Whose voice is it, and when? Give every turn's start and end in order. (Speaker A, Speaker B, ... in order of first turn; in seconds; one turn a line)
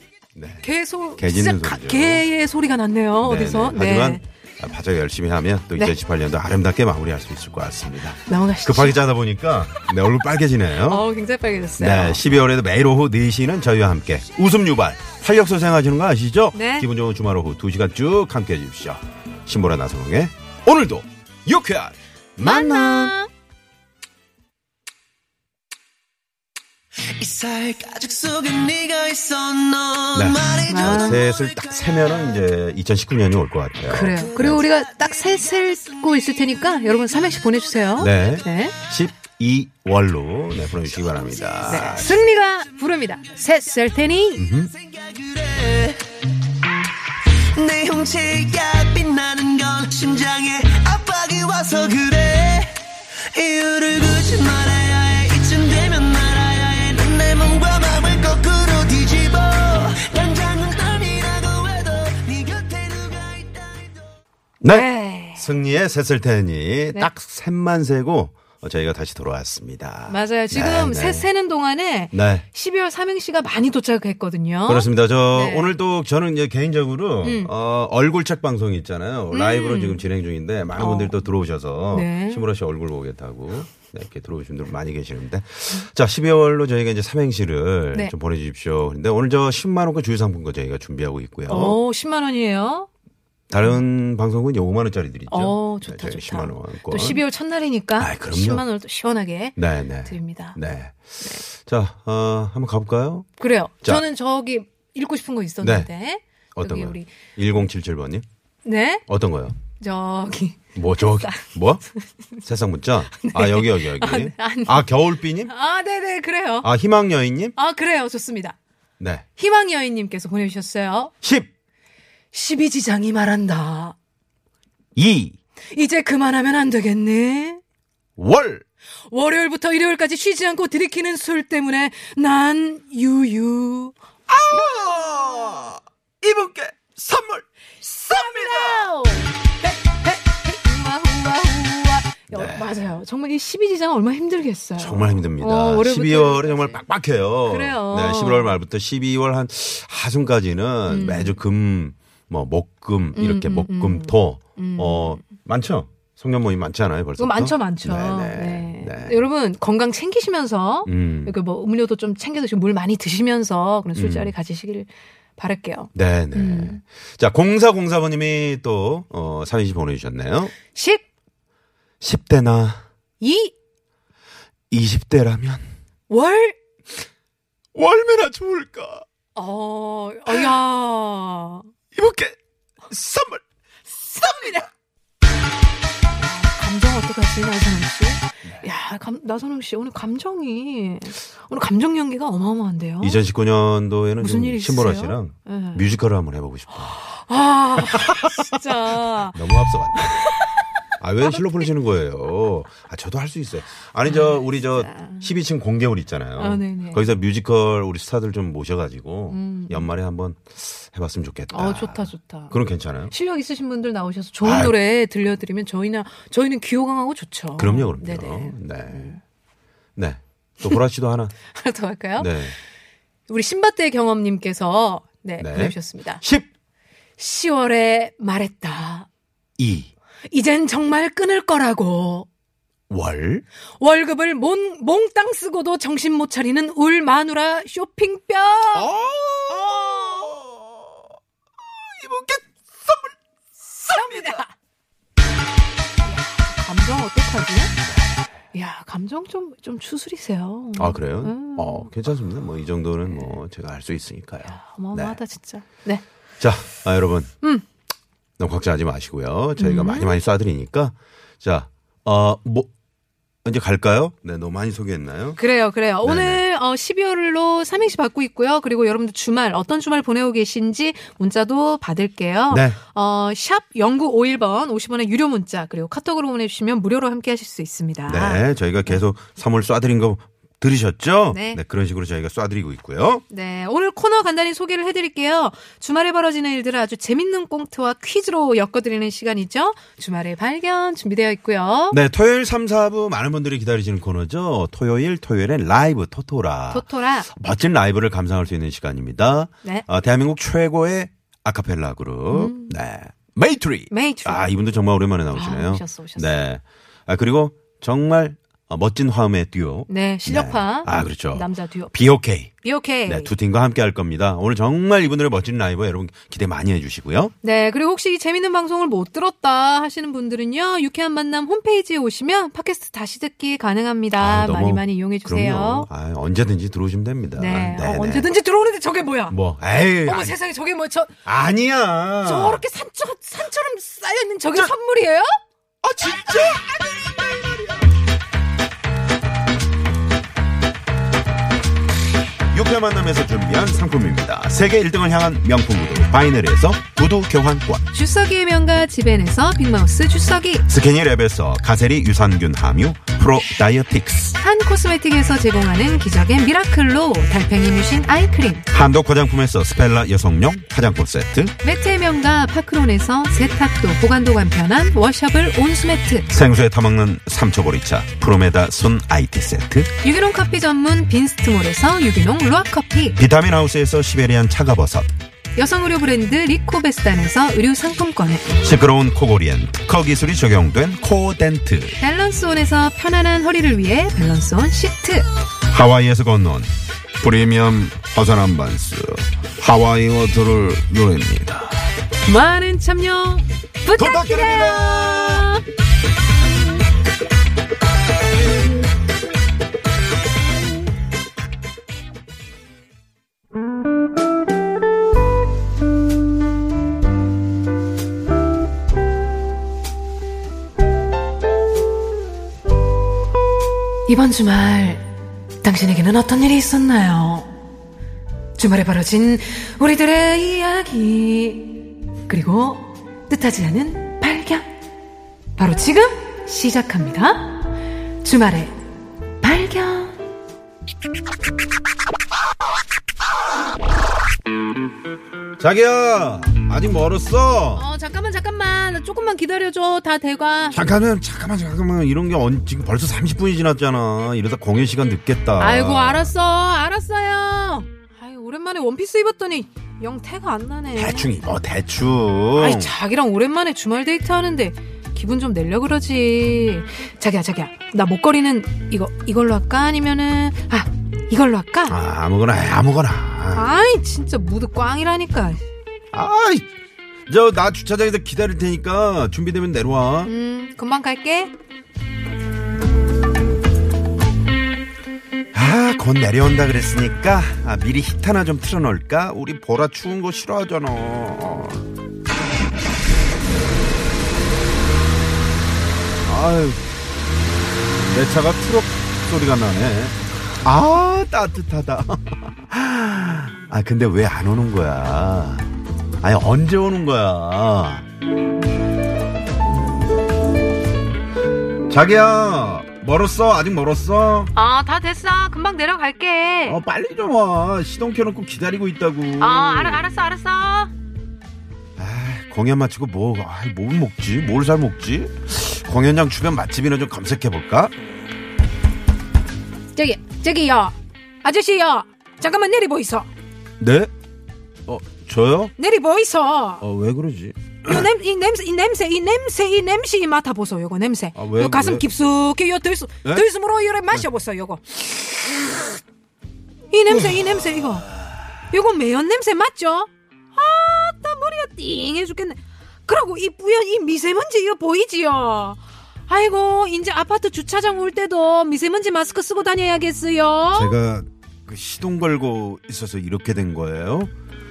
Speaker A: 0.4-0.7
Speaker B: 0.6-4.2
Speaker A: 1.2-2.2
Speaker A: 3.2-11.1
Speaker B: 8.3-9.0
Speaker B: 10.8-12.2
Speaker A: 11.8-23.1
Speaker B: 16.5-16.9
Speaker B: 22.4-23.3
Speaker C: 27.1-30.9
Speaker A: 30.1-34.6
Speaker B: 30.7-31.2
Speaker B: 33.9-38.8
Speaker A: 38.0-42.2
Speaker B: 41.6-44.5
Speaker A: 44.4-44.7
Speaker C: 44.9-46.0
Speaker C: 47.4-63.9
Speaker A: 64.6-71.3
Speaker B: 64.7-65.5
Speaker B: 70.1-75.7
Speaker A: 72.1-72.5
Speaker A: 74.7-91.8
Speaker B: 77.2-77.5
Speaker B: 79.3-80.0
Speaker B: 80.8-81.2
Speaker B: 81.9-82.5
Speaker B: 91.5-92.9
Speaker A: 93.5-97.2
Speaker B: 95.3-100.6
Speaker A: 98.0-98.7
Speaker A: 99.6-103.3
Speaker B: 103.4-107.1
Speaker A: 105.6-105.9
Speaker A: 106.6-108.2
Speaker B: 108.6-109.0
Speaker A: 109.1-109.6
Speaker B: 109.8-112.0
Speaker A: 110.8-111.8
Speaker A: 112.4-115.5
Speaker B: 113.2-114.9
Speaker B: 115.4-116.7
Speaker A: 116.6-117.5
Speaker B: 117.6-118.6
Speaker A: 119.0-119.2
Speaker B: 119.4-121.1
Speaker A: 121.2-121.5
Speaker B: 122.3-124.0
Speaker A: 125.0-125.4
Speaker B: 125.7-127.6
Speaker A: 128.2-128.6
Speaker B: 129.1-134.0
Speaker A: 134.3-138.9
Speaker B: 137.9-146.8
Speaker A: 142.3-143.0
Speaker A: 144.8-159.2
Speaker B: 147.5-148.6
Speaker B: 150.9-151.4
Speaker B: 153.1-155.2
Speaker B: 157.2-166.8
Speaker A: 160.9-161.3
Speaker A: 163.9-164.3
Speaker A: 165.9-170.6
Speaker B: 170.7-171.0
Speaker A: 172.0-172.8
Speaker B: 173.2-173.5
Speaker A: 174.7-175.8
Speaker B: 176.1-176.6
Speaker A: 177.8-179.1
Speaker B: 179.3-181.7
Speaker A: 181.9-182.4
Speaker A: 182.9-183.4
Speaker B: 184.0-184.7
Speaker B: 186.2-193.2
Speaker A: 193.0-197.0
Speaker B: 194.2-195.9
Speaker B: 196.8-200.7
Speaker A: 197.8-198.3
Speaker A: 199.3-200.2
Speaker A: 201.0-213.1
Speaker B: 201.2-201.7
Speaker B: 204.1-205.3
Speaker B: 206.4-207.0
Speaker B: 209.3-209.9
Speaker B: 211.5-219.2
Speaker A: 214.4-214.8
Speaker A: 217.6-219.2
Speaker A: 220.0-221.3
Speaker B: 221.5-222.5
Speaker A: 222.2-222.6
Speaker B: 223.3-226.2
Speaker A: 225.4-226.5
Speaker B: 227.2-229.1
Speaker A: 229.6-229.9
Speaker B: 230.3-232.3
Speaker A: 232.9-233.4
Speaker B: 233.8-238.9
Speaker A: 238.7-241.0
Speaker A: 241.7-243.2
Speaker A: 243.8-244.4
Speaker B: 243.8-244.5
Speaker B: 246.0-247.7
Speaker A: 247.8-248.2
Speaker B: 248.5-251.9
Speaker A: 250.8-255.2
Speaker B: 253.1-253.4
Speaker B: 254.4-256.0
Speaker A: 256.4-257.3
Speaker A: 258.4-262.7
Speaker B: 259.6-260.1
Speaker A: 263.4-265.4
Speaker B: 265.4-279.0
Speaker A: 266.0-266.4
Speaker A: 272.5-272.8
Speaker A: 278.1-283.2
Speaker B: 281.3-281.6
Speaker B: 283.3-292.0
Speaker A: 291.9-312.5
Speaker B: 296.7-297.3
Speaker B: 302.3-302.8
Speaker B: 303.9-304.5
Speaker B: 305.3-306.4
Speaker B: 309.9-313.3
Speaker A: 313.1-317.3
Speaker B: 317.4-325.9
Speaker A: 324.2-328.3
Speaker B: 327.4-329.4
Speaker A: 329.3-330.4
Speaker B: 330.1-331.1
Speaker A: 331.3-332.6
Speaker B: 332.2-335.3
Speaker A: 335.8-338.0
Speaker A: 342.5-347.9
Speaker B: 347.9-350.7
Speaker A: 350.7-354.4
Speaker B: 354.4-358.7
Speaker A: 358.7-361.5
Speaker B: 361.6-366.3
Speaker A: 366.3-369.9
Speaker B: 370.0-373.2
Speaker A: 373.2-375.1
Speaker B: 375.6-378.5
Speaker A: 378.6-382.0
Speaker B: 382.0-385.3
Speaker A: 385.7-391.9
Speaker B: 392.2-395.6
Speaker A: 393.9-395.6
Speaker B: 414.1-415.1
Speaker B: 415.6-417.5
Speaker B: 418.6-424.7
Speaker B: 425.6-427.7
Speaker B: 428.2-428.8
Speaker B: 429.4-430.2
Speaker A: 435.6-437.8
Speaker B: 437.7-440.8
Speaker A: 440.7-446.3
Speaker B: 445.6-451.3
Speaker A: 450.9-452.9
Speaker B: 452.6-462.0
Speaker A: 461.9-463.7
Speaker B: 463.5-465.6
Speaker A: 466.1-466.7
Speaker A: 467.3-470.3
Speaker B: 470.2-471.5
Speaker A: 475.5-481.9
Speaker A: 486.2-486.8
Speaker A: 488.1-495.7
Speaker A: 496.2-498.1
Speaker A: 501.9-504.5
Speaker B: 504.5-506.8
Speaker A: 506.7-510.1
Speaker B: 509.4-510.9
Speaker A: 512.0-517.9
Speaker B: 519.9-523.3
Speaker A: 523.8-524.1
Speaker A: 524.9-525.7
Speaker B: 525.8-526.8
Speaker A: 526.8-528.1
Speaker B: 527.8-535.3
Speaker A: 531.4-532.1
Speaker B: 536.9-538.1
Speaker A: 537.1-537.9
Speaker B: 538.7-551.0
Speaker A: 550.7-554.3